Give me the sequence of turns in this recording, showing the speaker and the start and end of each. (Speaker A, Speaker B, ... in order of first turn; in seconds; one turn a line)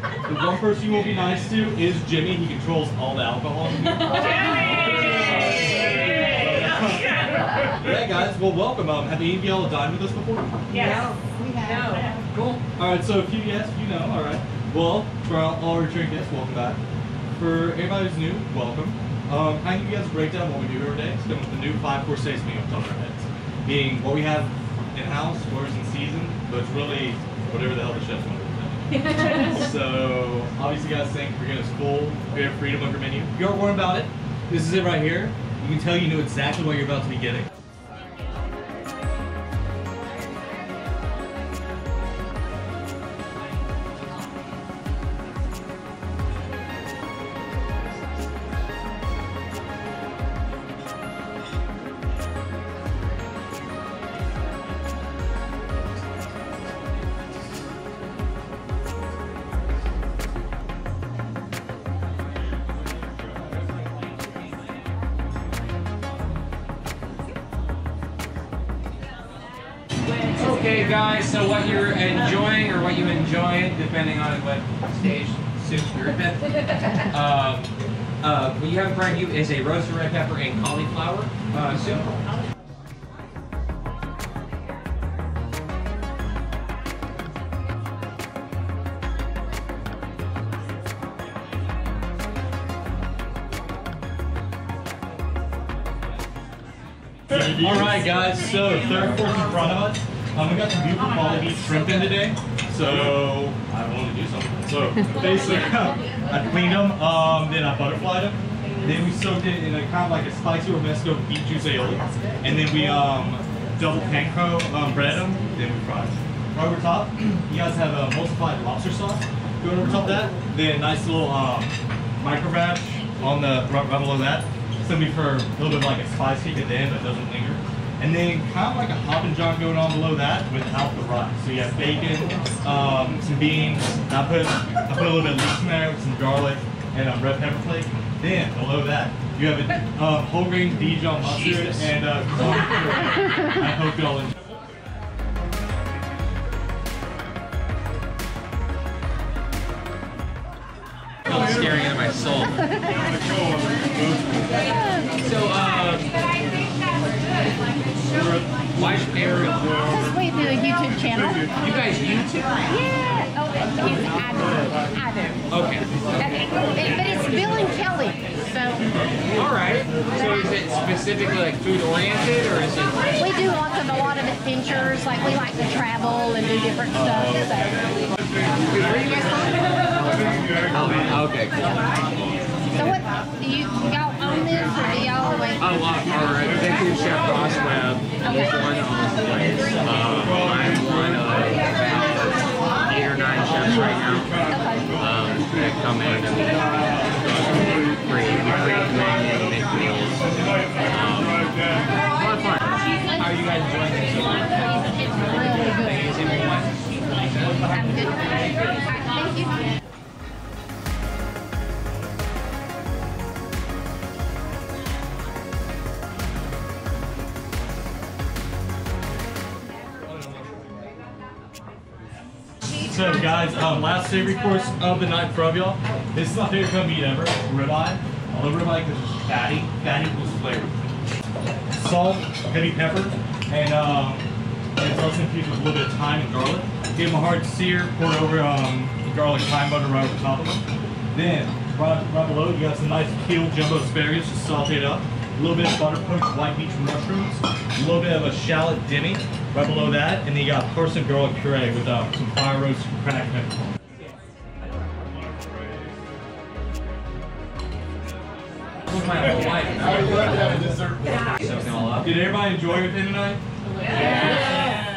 Speaker A: 0.2-10.6
Speaker B: 10.7-12.2
Speaker A: 12.7-16.8
Speaker A: 17.4-37.5
Speaker C: 70.3-82.1
Speaker A: 97.3-144.3
Speaker C: 141.2-141.9
Speaker C: 151.3-152.8
Speaker B: 154.7-155.1
Speaker C: 155.2-156.2
Speaker C: 158.7-159.8
Speaker B: 159.8-161.5
Speaker C: 161.6-162.6
Speaker B: 162.6-165.4
Speaker C: 165.5-166.0
Speaker B: 166.6-168.9
Speaker C: 169.3-173.0
Speaker B: 173.2-177.8
Speaker A: 176.9-177.5
Speaker C: 178.7-182.1
Speaker B: 182.7-185.6
Speaker C: 185.6-207.7
Speaker B: 205.4-206.0
Speaker B: 207.7-209.7
Speaker A: 220.0-220.6
Speaker A: 222.8-230.8
Speaker A: 231.7-253.7
Speaker C: 258.9-262.1
Speaker A: 262.0-263.4
Speaker C: 264.0-264.6